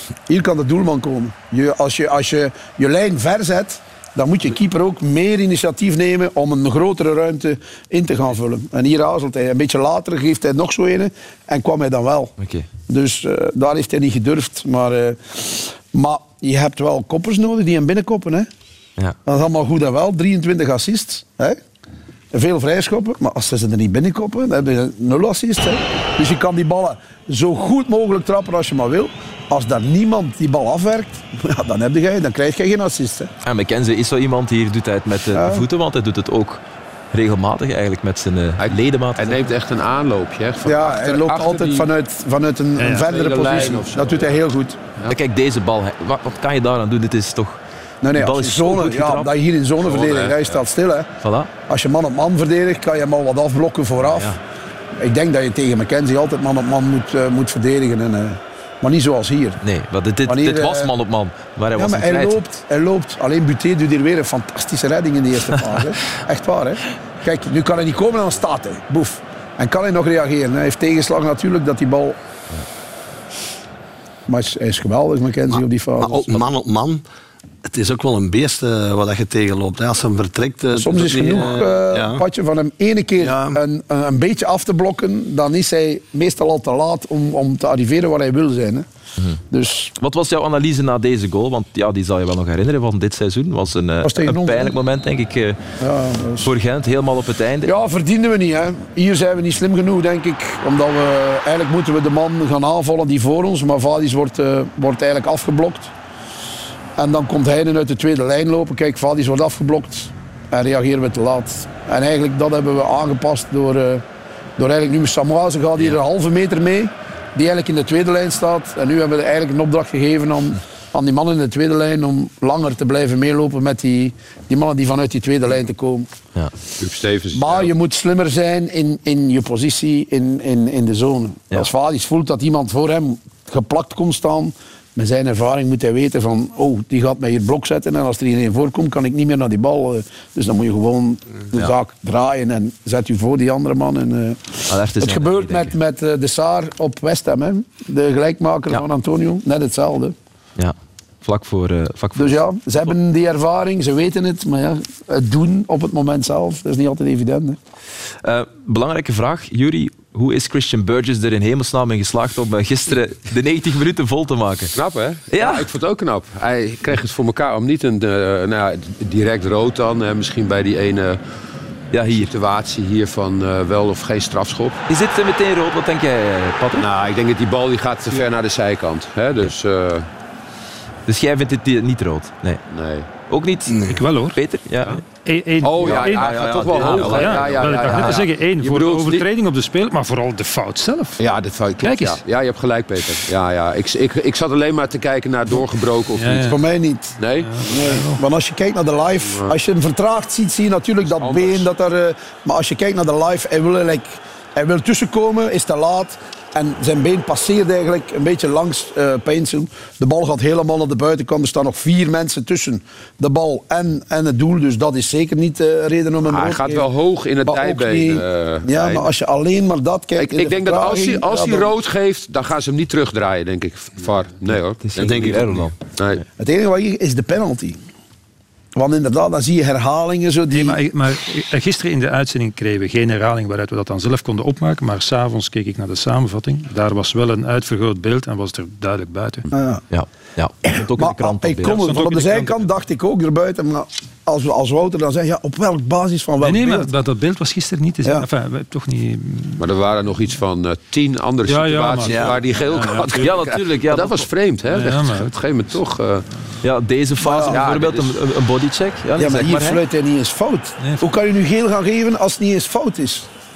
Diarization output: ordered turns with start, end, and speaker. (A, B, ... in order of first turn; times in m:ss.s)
0:00.3-0:12.3 A
0:12.4-0:12.7 B
0:12.9-0:18.5 A
0:19.2-0:21.6 A
0:22.3-0:33.3 A
0:33.4-0:39.4 B
0:35.3-0:35.6 A
0:38.6-0:41.9 C
0:40.6-0:44.8 A
0:42.8-0:43.1 D
0:43.0-0:44.4 C
0:45.1-0:49.3 B
0:48.0-0:51.1 A
0:49.8-0:50.6 C
0:51.2-0:51.5 B
0:51.7-0:54.4 A
0:54.1-0:54.4 B
0:55.0-0:59.6 A
0:59.6-1:02.4 B
1:00.3-1:00.9 A
1:01.8-1:12.2 A
1:14.3-1:16.4 A
1:16.0-1:17.0 E
1:17.6-1:22.2 E
1:20.7-1:28.9 A
1:23.2-1:23.6 E
1:29.5-1:29.9 A
1:30.0-1:35.6 B
1:34.0-1:34.8 A
1:35.8-1:36.5 A
1:36.4-1:37.7 B
1:37.6-1:45.9 A
1:47.0-1:54.0 A
1:54.6-2:06.1 A
2:06.8-2:07.7 C
2:07.3-2:30.2 A
2:24.7-2:25.7 B
2:30.6-2:32.4 B
2:32.2-2:37.6 A
2:38.2-2:44.7 B
2:44.8-2:51.2 C
2:45.3-2:45.7 B
2:51.9-2:52.3 B
2:52.1-2:54.8 C
2:54.9-2:56.9 B
2:56.8-3:00.1 C
3:01.1-3:02.6 B
3:02.7-3:03.1 C
3:03.3-3:05.0 B
3:03.7-3:04.0 E
3:03.9-3:11.2 D
3:05.6-3:09.2 C
3:05.8-3:08.2 B
3:05.8-3:07.6 E
3:11.2-3:16.5 C
3:11.8-3:12.2 D
3:16.2-3:16.6 D
3:16.3-3:36.9 A
3:17.2-3:17.9 C
3:17.4-3:18.2 D
3:19.3-3:19.6 C
3:21.1-3:21.7 C
3:36.2-3:39.1 C
3:37.4-3:41.7 A
3:40.2-3:45.1 C
3:44.8-3:45.8 B
3:44.9-3:45.7 E
3:46.0-3:46.2 C
3:46.4-3:47.8 A
3:48.8-3:50.8 A
3:50.5-3:59.5 D
3:59.5-3:59.8 A
3:59.9-4:01.9 B
4:00.7-4:06.9 A
4:01.7-4:02.6 D
4:06.4-4:09.6 D
4:09.6-4:16.3 C
4:11.5-4:13.2 D
4:12.0-4:12.4 E
4:13.1-4:14.3 B
4:14.7-4:15.3 D
4:16.6-4:19.8 B
4:17.2-4:17.6 A
4:17.3-4:18.2 C
4:19.2-4:23.3 A